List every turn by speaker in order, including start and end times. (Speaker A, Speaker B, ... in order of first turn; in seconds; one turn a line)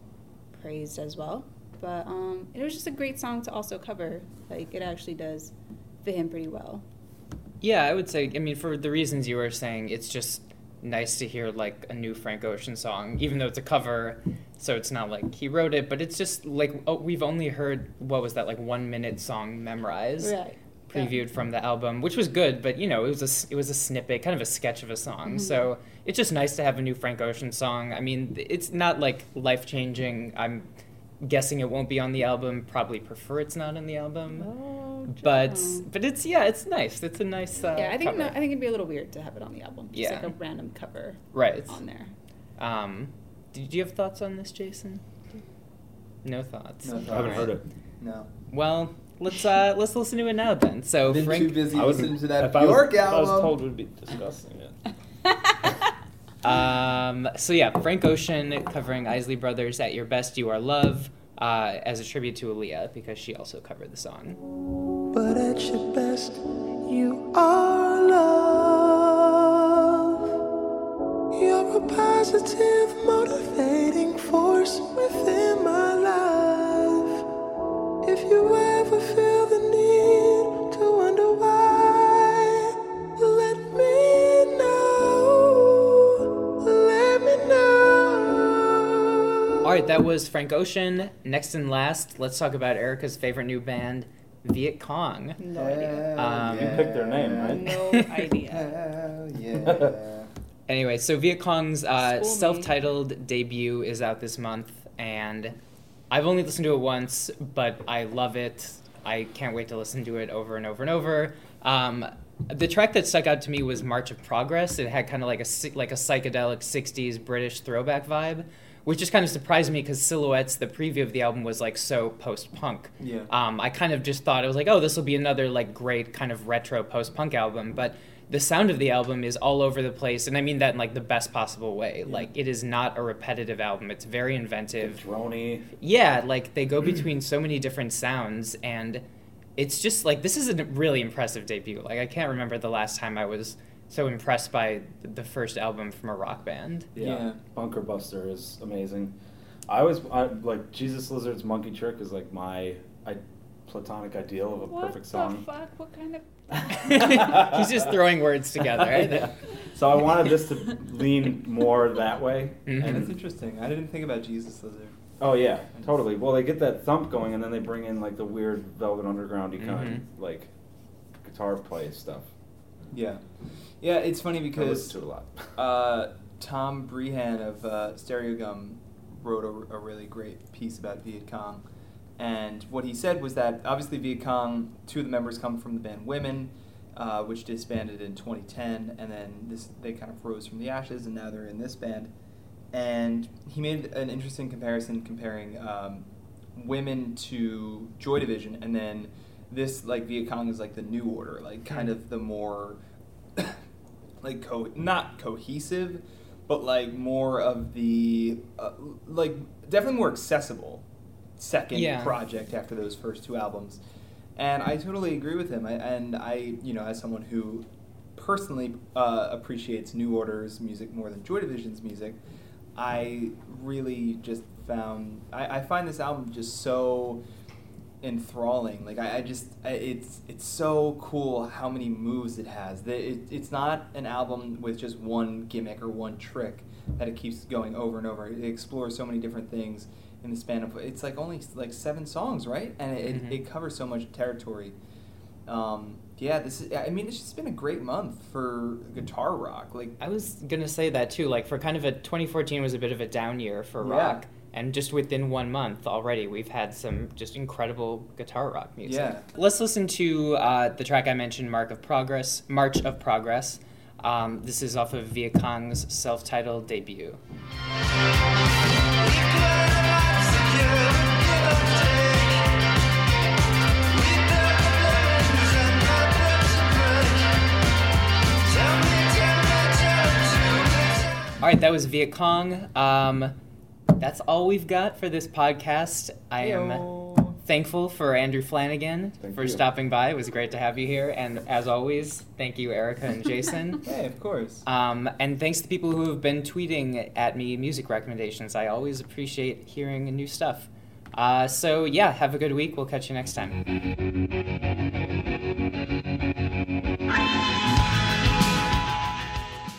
Speaker A: 0.5-6.8
Speaker B: 7.6-20.4
Speaker A: 20.2-21.2
Speaker B: 20.9-30.7
Speaker A: 25.2-25.7
Speaker B: 31.2-34.5
Speaker A: 34.4-35.9
Speaker B: 35.1-38.4
Speaker A: 37.7-42.1
Speaker B: 39.9-40.3
Speaker B: 41.3-41.8
Speaker B: 42.6-45.0
Speaker B: 46.2-47.5
Speaker C: 46.9-48.3
Speaker D: 47.1-47.6
Speaker B: 48.5-51.7
Speaker C: 51.1-53.5
Speaker D: 51.7-54.8
Speaker B: 56.4-64.4
Speaker E: 65.1-70.0
Speaker E: 71.3-77.2
Speaker E: 78.0-86.1
Speaker E: 86.6-88.9
Speaker B: 89.6-95.4
Speaker A: 95.4-96.2
Speaker C: 95.5-97.7
Speaker B: 96.1-96.8
Speaker D: 96.5-97.8
Speaker A: 97.4-98.8
Speaker C: 98.5-100.3
Speaker D: 99.6-99.9
Speaker B: 100.7-105.6
Speaker A: 102.0-102.7
Speaker B: 106.1-135.0
Speaker C: 123.0-123.3
Speaker D: 134.8-135.7
Speaker B: 135.8-139.0
Speaker B: 139.6-146.9
Speaker D: 147.0-149.2
Speaker C: 147.0-147.4
Speaker D: 149.7-155.5
Speaker A: 154.6-156.8
Speaker D: 156.6-157.8
Speaker B: 156.7-159.3
Speaker D: 158.8-163.2
Speaker B: 162.7-163.0
Speaker C: 162.8-165.1
Speaker D: 165.2-170.5
Speaker B: 169.6-170.0
Speaker D: 171.2-172.3
Speaker C: 172.9-173.2
Speaker C: 173.8-174.9
Speaker D: 174.6-175.5
Speaker C: 175.6-181.6
Speaker C: 182.2-192.1
Speaker C: 192.7-202.8
Speaker C: 204.2-210.8
Speaker C: 211.4-213.8
Speaker B: 211.7-212.2
Speaker C: 214.4-222.2
Speaker C: 222.8-227.2
Speaker C: 228.0-244.8
Speaker B: 243.0-243.4
Speaker C: 245.5-250.0
Speaker B: 250.0-267.2
Speaker C: 253.8-254.2
Speaker C: 258.9-259.3
Speaker E: 269.0-272.5
Speaker E: 273.9-277.5
Speaker E: 278.4-281.2
Speaker B: 281.4-283.4
Speaker B: 284.0-293.8
Speaker C: 286.4-287.4
Speaker D: 289.2-289.6
Speaker C: 293.8-294.6
Speaker B: 294.6-303.6